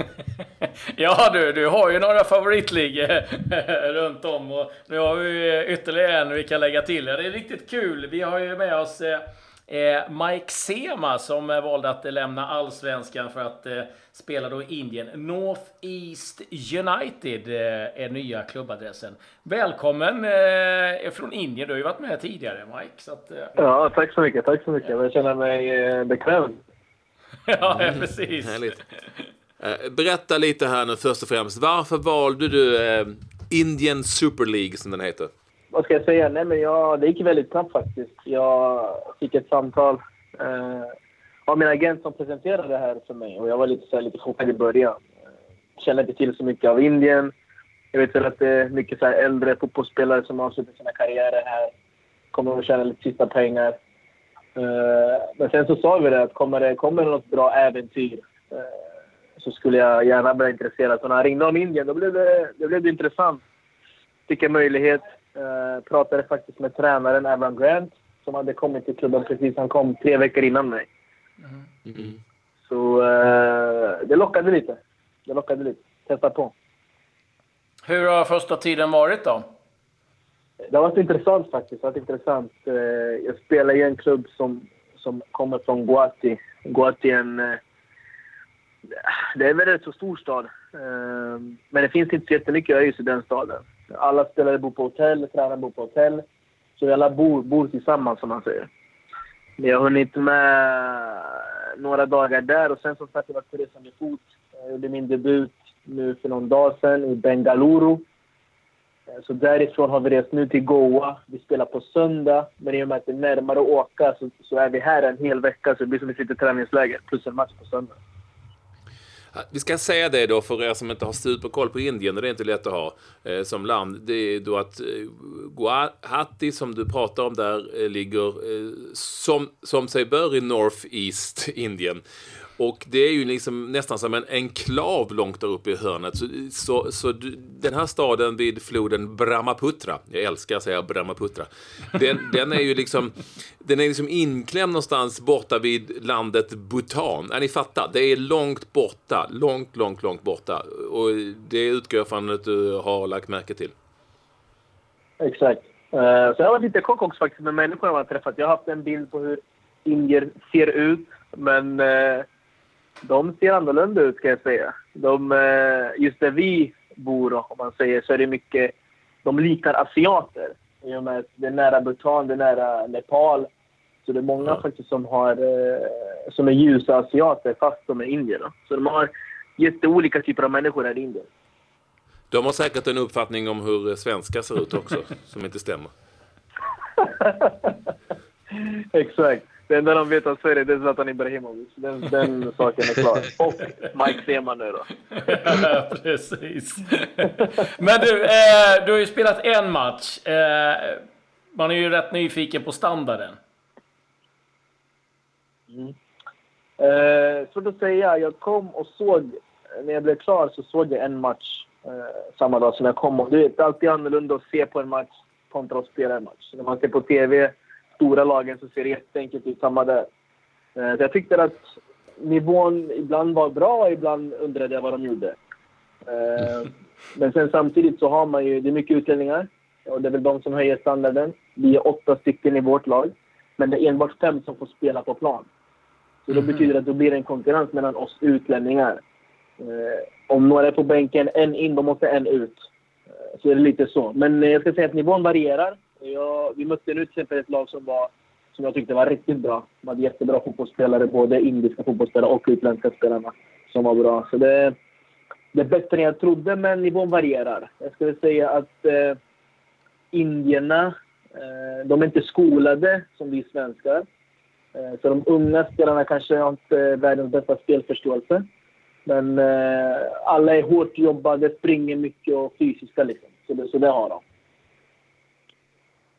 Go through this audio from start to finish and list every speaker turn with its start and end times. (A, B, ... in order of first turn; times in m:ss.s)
0:01.0-0:23.6 A
0:23.6-0:26.6 B
0:27.5-0:28.8 A
0:27.7-0:28.8 C
0:29.6-0:35.3 C
0:35.7-0:40.9 B
0:41.5-0:45.0 B
0:45.8-0:47.3 B
0:47.9-0:51.7 B
0:52.3-0:53.8 B
0:54.6-0:58.7 B
0:59.4-1:03.4 B
1:04.3-1:10.9 B
1:11.9-1:12.2 C
1:12.7-1:16.5 B
1:17.8-1:19.4 A
1:20.7-1:27.6 B
1:29.0-1:36.2 B
1:36.8-1:38.7 B
1:39.6-1:48.0 B
1:49.2-1:57.9 B
1:59.3-2:12.0 C
2:12.6-2:33.7 C
2:35.2-2:42.2 B
2:43.0-2:48.7 B
2:49.2-2:53.5 B
2:54.0-3:01.3 B
3:02.3-3:05.9 C
3:07.0-3:07.7 B
3:08.6-3:14.9 B
3:15.1-3:21.0 A
3:21.5-3:23.4 A
3:25.7-3:25.9 B
3:26.8-3:40.1 B
3:40.8-3:41.7 B
3:42.2-3:45.4 B
3:46.0-3:55.5 B
3:56.2-3:59.0 B
3:59.6-4:02.6 B
4:03.4-4:14.7 B
4:15.5-4:19.2 B
4:20.1-4:24.1 B
4:24.8-4:28.4 B
4:29.1-4:34.2 B